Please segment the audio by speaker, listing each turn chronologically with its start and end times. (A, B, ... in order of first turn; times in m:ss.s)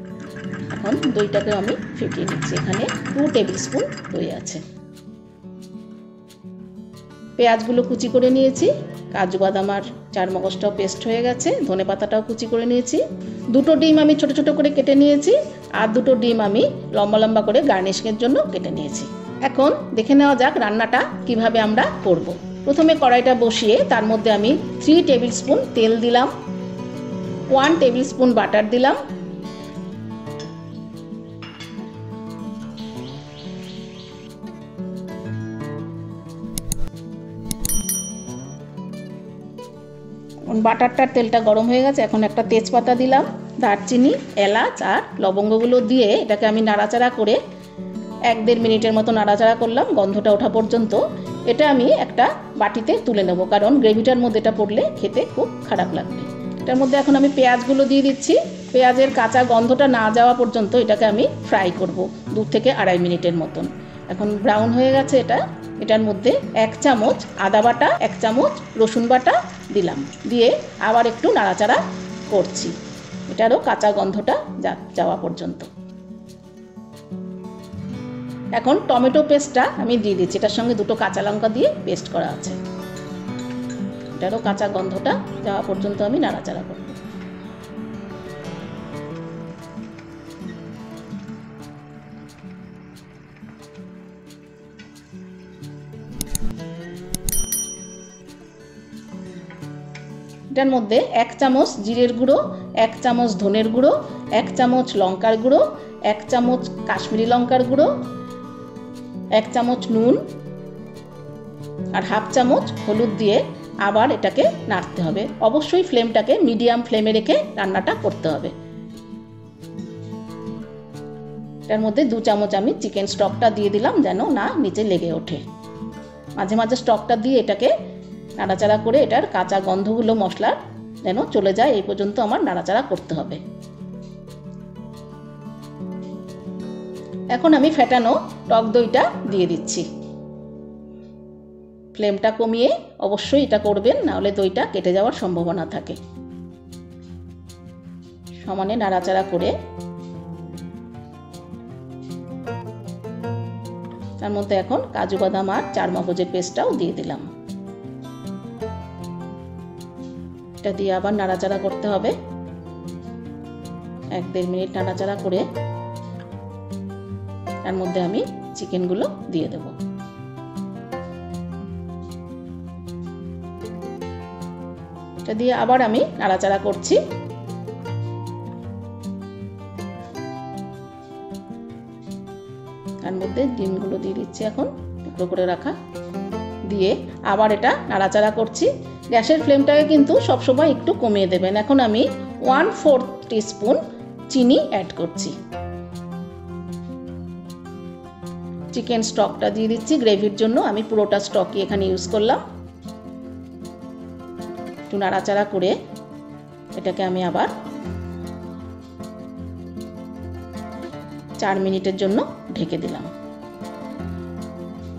0:00.7-0:04.6 A
0:07.4-0:26.3 A
0:27.5-0:29.0 A
0:40.5-0:47.4 A
0:48.3-1:12.8 A
1:13.3-1:15.7 A
1:18.6-1:22.6 A
1:24.2-1:27.0 A
1:40.5-1:47.9 A
1:49.4-1:50.2 A
1:52.0-1:58.5 A
2:01.7-2:05.4 A
2:06.4-2:07.7 A
2:08.4-2:13.4 A
2:17.3-2:19.8 A
2:21.9-2:26.0 A
2:28.4-2:29.5 A
2:34.2-2:37.3 A
2:40.6-2:42.2 A
2:44.2-2:45.4 A
2:47.6-2:49.8 A
2:55.3-2:57.0 A
3:03.0-3:05.8 A
3:06.7-3:15.3 A
3:18.7-3:22.4 A
3:24.9-3:25.8 A
3:26.8-3:27.5 A
3:31.4-3:33.1 A